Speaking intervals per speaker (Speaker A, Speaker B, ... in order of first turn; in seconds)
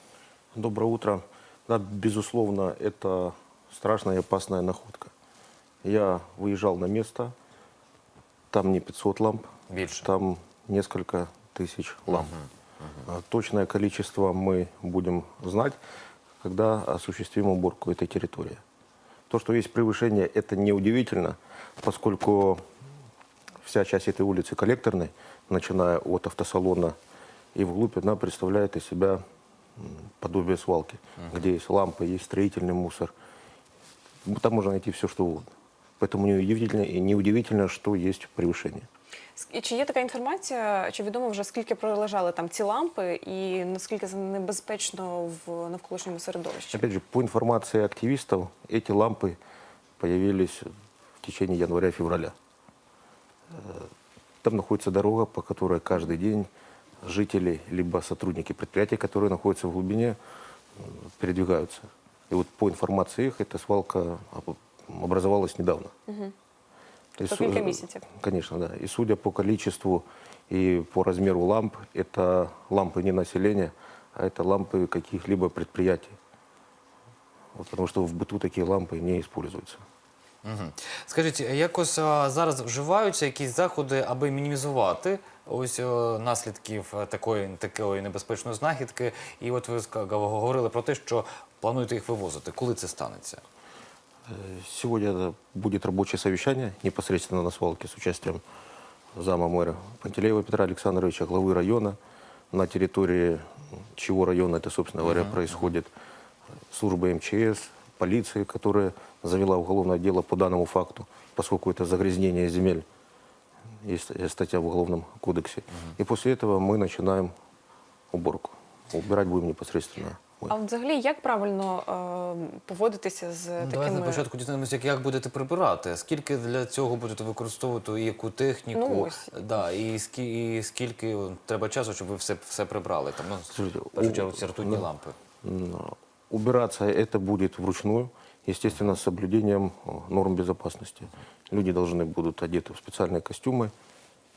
Speaker A: 0.5-5.1, 5.8-7.3, 8.5-9.5, 10.0-12.3, 13.1-15.8, 16.4-18.6, 19.3-22.6, 23.6-26.9, 27.5-29.2, 29.8-33.1, 34.2-35.5, 36.0-38.9, 46.7-49.4, 50.0-50.7, 51.2-52.3, 53.5-53.9, 54.4-56.5, 57.0-60.2, 60.8-65.9, 67.2-76.2, 77.5-79.8, 94.3-98.4, 99.1-102.0, 102.5-105.9, 106.7-112.8, 113.8-117.3, 118.1-120.5, 133.5-134.9, 135.4-143.7
Speaker B: 9.7-10.1, 12.1-13.1, 80.4-93.4, 105.0-105.5, 123.6-135.1
Speaker C: 39.4-46.8, 66.1-66.3, 67.2-68.0, 120.5-124.2, 128.7-129.3